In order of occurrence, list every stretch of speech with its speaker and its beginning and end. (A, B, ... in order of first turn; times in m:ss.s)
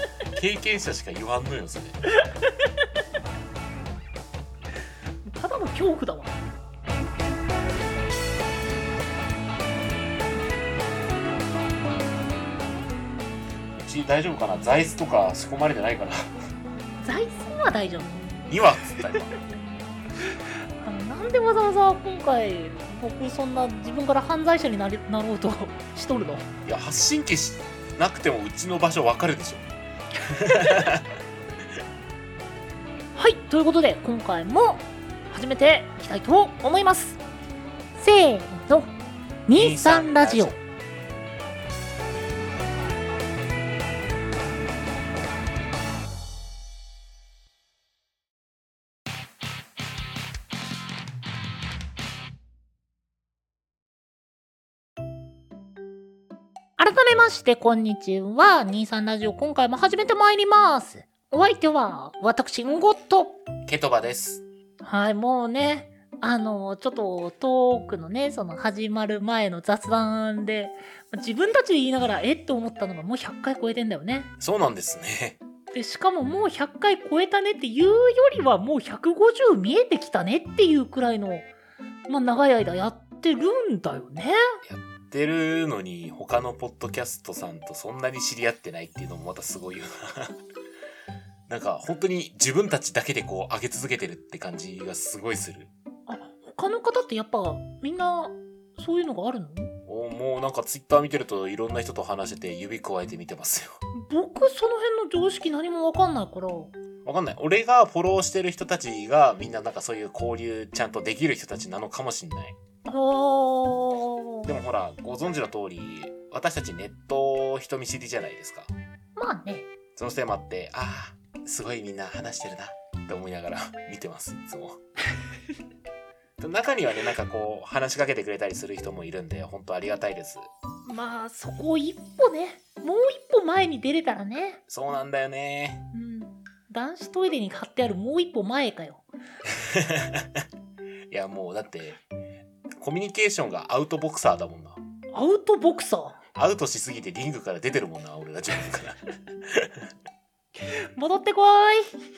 0:00.3-0:02.0 A
0:05.2-0:06.4 B
0:13.8-0:16.3 A
0:17.0-0:18.5 B
0:18.5-0:19.4 A
0:20.3-0:26.5 B
0:26.7-0:29.7 A
0:30.2-0:31.1 A
0:30.5-0:30.8 B
0:33.2-0:37.2 B
0:38.0-0:38.9 B
0:39.5-0:40.6 B
0:39.5-0:40.6 A
0:56.8-1:03.4 B
1:03.7-1:04.4 A
1:04.8-1:14.3 B
1:14.4-1:15.4 A
1:15.7-1:21.5 B
1:22.1-1:24.4 B
1:24.6-1:30.3 A
1:31.5-1:35.7 A
1:36.1-1:39.7 B
1:39.9-1:43.8 A
1:43.9-1:46.7 B
1:47.0-1:52.6 A
1:52.9-1:54.5 B
1:54.4-1:58.7 A
1:59.2-1:59.7 B
2:00.0-2:04.8 A
2:06.4-2:10.5 A
2:10.8-2:14.6 B
2:14.7-2:15.8 A
2:15.9-2:19.0 B
2:19.6-2:20.4 A
2:21.1-2:22.0 A
2:22.8-2:24.8 A
2:25.1-2:26.2 B
2:26.3-2:29.8 A
2:30.6-2:31.9 B